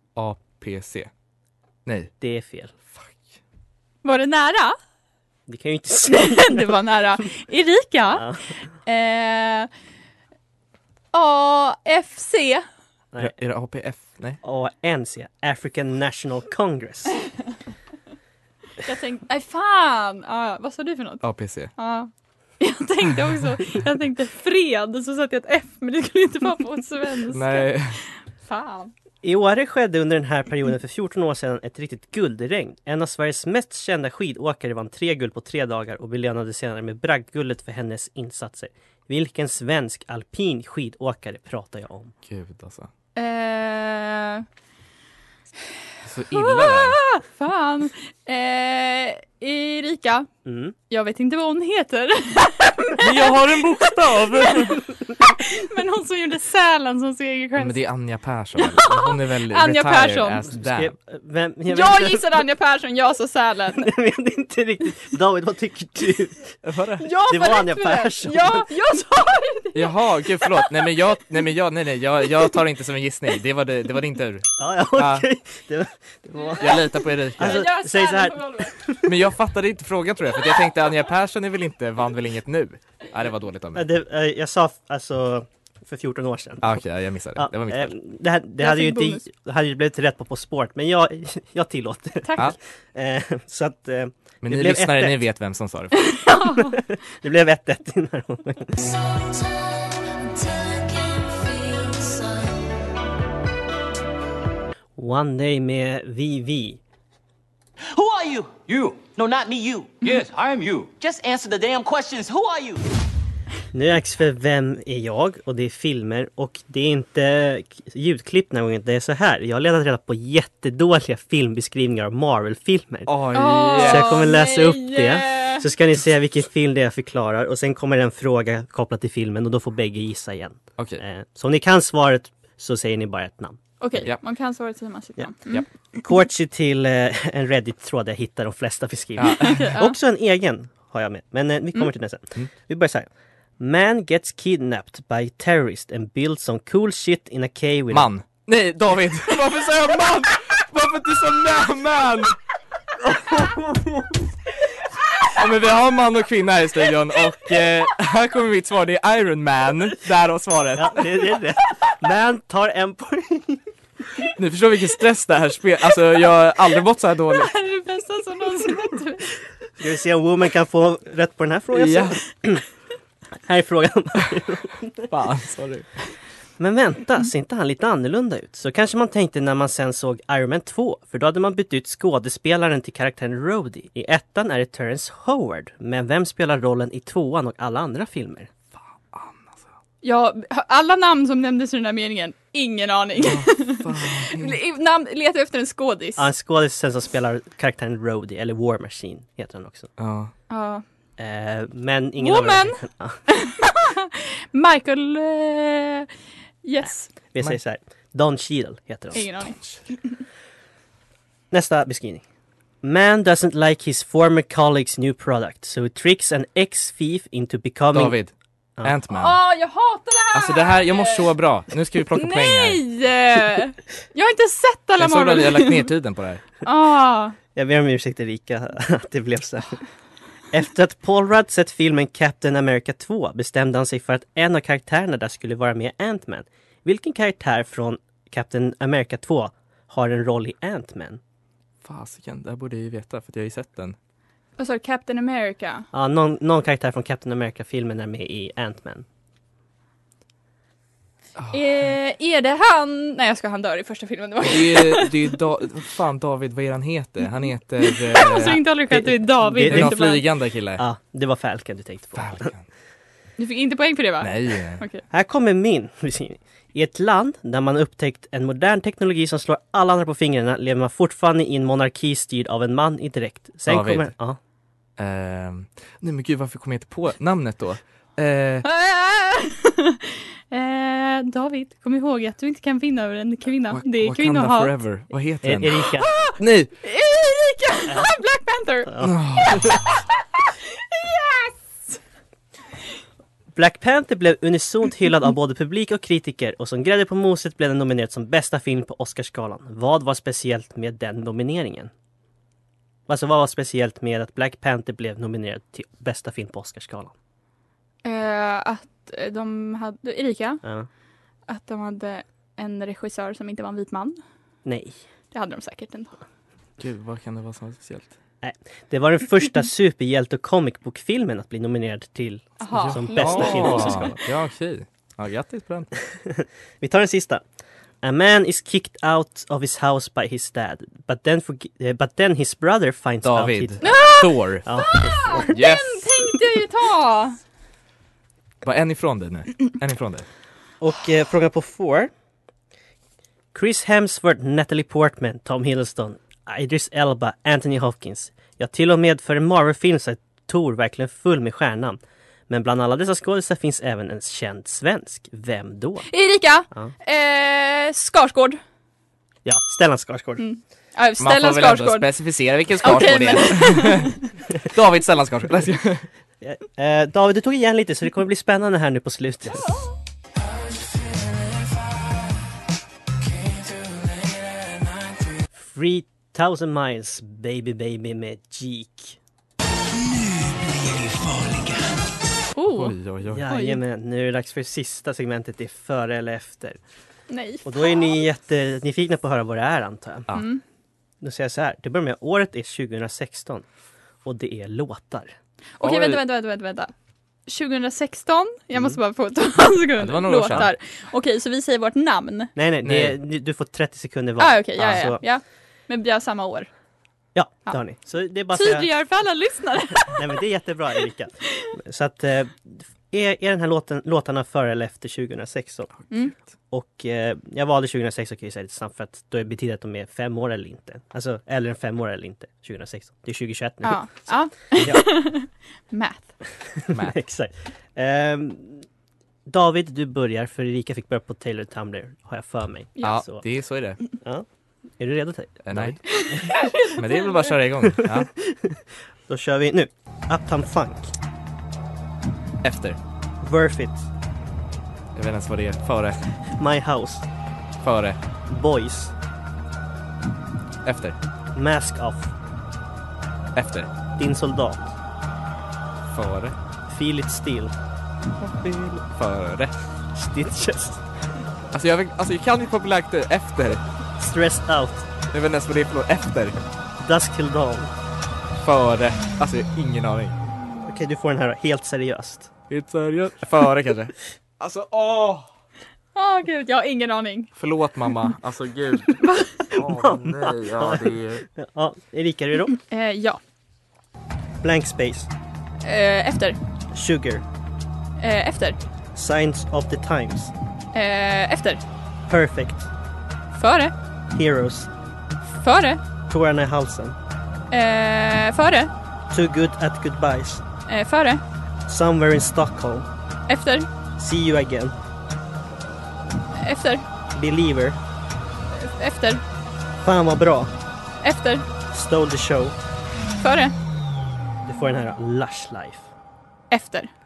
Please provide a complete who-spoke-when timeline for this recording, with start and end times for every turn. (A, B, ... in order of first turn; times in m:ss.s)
0:00.2-0:01.1 A
0:01.8-0:02.1 A
0:02.2-0:02.7 B
0:04.0-0:04.8 C
0:05.5-0:06.6 B
0:06.1-0:08.2 C
0:08.1-0:08.4 B
0:08.8-0:09.7 C
0:11.1-0:12.6 C
0:13.2-0:14.4 A
0:14.4-0:17.2 B
0:18.8-0:28.9 C
0:21.2-0:21.7 A
0:27.3-0:28.0 A
0:29.2-0:42.1 B
0:42.2-0:42.9 A
0:43.2-0:44.4 C
0:46.0-0:47.0 A
0:46.3-0:50.3 C
0:50.4-0:50.7 B
0:50.9-0:53.1 C
0:53.0-0:54.8 A
0:55.2-0:57.8 C
0:57.6-1:00.9 A
0:58.6-1:00.4 C
1:00.6-1:02.3 B
1:01.7-1:03.9 C
1:03.8-1:06.5 B
1:06.6-1:07.0 A
1:07.0-1:10.6 C
1:07.3-1:08.7 B
1:09.7-1:15.2 A
1:14.6-1:16.8 B
1:16.4-1:16.8 C
1:16.6-1:17.7 A
1:17.4-1:19.0 B
1:17.4-1:18.7 C
1:19.0-1:23.8 A
1:23.7-1:26.7 B
1:26.6-1:27.9 A
1:27.4-1:35.2 B
1:28.6-1:29.2 C
1:32.2-1:32.5 C
1:34.4-1:36.2 A
1:36.0-1:36.7 C
1:36.6-1:38.7 B
1:39.0-1:42.5 D
1:45.0-1:46.8 B
1:47.9-1:52.8 D
1:53.7-2:13.6 B
2:03.1-2:04.2 A
2:03.3-2:05.6 C
2:13.8-2:15.6 C
2:16.0-2:28.1 B
2:19.2-2:19.7 A
2:19.4-2:19.9 C
2:27.9-2:32.4 A
2:35.3-2:41.2 A
2:40.8-2:43.6 B
2:44.4-2:47.5 A
2:47.3-2:49.3 C
2:49.8-2:52.6 B
2:51.7-2:52.2 A
2:53.4-2:55.0 B
2:55.1-2:55.9 A
2:56.6-3:08.5 B
3:09.1-3:09.5 A
3:10.0-3:16.2 C
3:13.2-3:14.6 A
3:16.2-3:19.9 B
3:20.0-3:20.3 A
3:20.5-3:20.8 C
3:21.2-3:23.2 B
3:22.2-3:26.1 C
3:26.6-3:27.1 C
3:27.3-3:29.3 B
3:29.1-3:30.2 C
3:31.5-3:32.2 B
3:32.8-3:38.2 B
3:37.9-3:38.3 A
3:38.8-3:39.4 A
3:39.1-3:41.3 C
3:40.3-3:42.8 A
3:42.2-3:45.9 C
3:45.0-3:46.4 A
3:46.6-3:47.4 C
3:47.5-3:49.8 B
3:50.5-4:01.2 B
4:01.8-4:04.0 A
4:04.6-4:05.9 C
4:05.9-4:09.0 B
4:11.5-4:15.1 C
4:14.4-4:18.6 A
4:17.9-4:20.2 C
4:18.9-4:20.0 B
4:19.5-4:20.8 A
4:20.8-4:22.5 B
4:22.2-4:22.6 A
4:23.4-4:25.0 C
4:24.2-4:24.8 A
4:25.1-4:34.4 B
4:33.7-4:34.1 A
4:35.0-4:38.6 A
4:38.6-4:44.7 C
4:43.7-4:46.7 A
4:45.4-4:46.1 B
4:46.0-4:48.9 C
4:48.9-4:49.8 B
4:49.0-4:49.8 A
4:49.7-4:52.0 C
4:53.5-5:01.9 B
5:03.1-5:07.1 B
5:08.0-5:10.6 C
5:10.6-5:10.9 B
5:11.5-5:14.2 C
5:14.6-5:15.0 B
5:15.3-5:16.2 C
5:16.8-5:18.1 A
5:18.4-5:24.2 B
5:22.6-5:24.2 C
5:22.7-5:25.9 A
5:26.1-5:27.4 B
5:28.0-5:34.0 B
5:33.2-5:34.6 A
5:33.8-5:37.4 C
5:34.6-5:35.6 B
5:35.4-5:36.0 A
5:38.6-5:40.2 A
5:40.8-5:42.1 B
5:43.5-5:56.1 B
5:56.1-5:58.6 C
5:59.4-6:00.4 B
6:00.4-6:02.1 C
6:01.2-6:04.1 A
6:02.8-6:04.2 C
6:04.7-6:06.1 A
6:06.4-6:09.8 B
6:15.6-6:19.2 B
6:22.5-6:23.0 C
6:22.7-6:23.4 A
6:23.3-6:26.8 B
6:23.5-6:23.8 C
6:27.3-6:28.1 C
6:27.6-6:30.3 B
6:30.3-6:30.6 C
6:31.2-6:33.6 B
6:34.2-6:35.3 B
6:35.8-6:36.9 C
6:35.8-6:36.2 A
6:37.5-6:42.5 C
6:40.0-6:40.7 A
6:42.5-6:45.2 B
6:42.8-6:43.1 A
6:44.4-6:46.7 C
6:47.3-6:48.9 B
6:48.5-6:50.4 C
6:50.1-6:56.1 B
6:56.7-7:05.2 B
7:03.8-7:06.3 C
7:06.9-7:08.8 B
7:09.5-7:13.4 B
7:13.0-7:13.2 C
7:13.0-7:14.0 A
7:14.1-7:14.4 B
7:15.0-7:16.8 B
7:15.6-7:16.3 A
7:16.2-7:17.5 C
7:16.8-7:18.3 A
7:17.9-7:21.1 B
7:22.6-7:23.0 A
7:23.4-7:24.0 B
7:25.2-7:26.3 A
7:26.5-7:27.3 B
7:27.8-7:28.2 A
7:28.5-7:29.1 B
7:30.8-7:31.2 A
7:31.5-7:32.3 B
7:33.6-7:33.9 A
7:34.1-7:34.9 B
7:36.1-7:36.6 A
7:36.9-7:37.7 B
7:38.4-7:39.8 A
7:40.1-7:41.0 B
7:41.7-7:43.8 A
7:44.2-7:45.1 B
7:45.3-7:46.6 A
7:47.0-7:47.9 B
7:48.6-7:50.3 A
7:50.8-7:52.5 B
7:52.7-7:55.5 A
7:56.1-7:57.5 C
7:57.6-8:01.4 A
7:59.2-7:59.5 C
7:59.7-8:02.8 B
8:02.8-8:03.4 C
8:04.6-8:05.3 B
8:05.8-8:06.6 C
8:06.9-8:07.4 B
8:08.2-8:08.8 C
8:09.1-8:10.5 B
8:10.9-8:11.8 C
8:12.3-8:12.9 B
8:13.5-8:13.9 C
8:14.3-8:14.9 B
8:15.5-8:16.0 C
8:16.3-8:17.2 B
8:17.7-8:18.9 C
8:19.3-8:20.6 B
8:20.9-8:21.4 C
8:21.9-8:23.1 B
8:23.5-8:23.9 C
8:24.2-8:25.0 B
8:26.6-8:27.0 C
8:27.3-8:28.0 B
8:28.7-8:29.4 C
8:30.0-8:30.7 B
8:31.2-8:31.6 C
8:31.9-8:32.8 B
8:33.4-8:33.7 C
8:34.6-8:36.1 B
8:36.7-8:37.1 C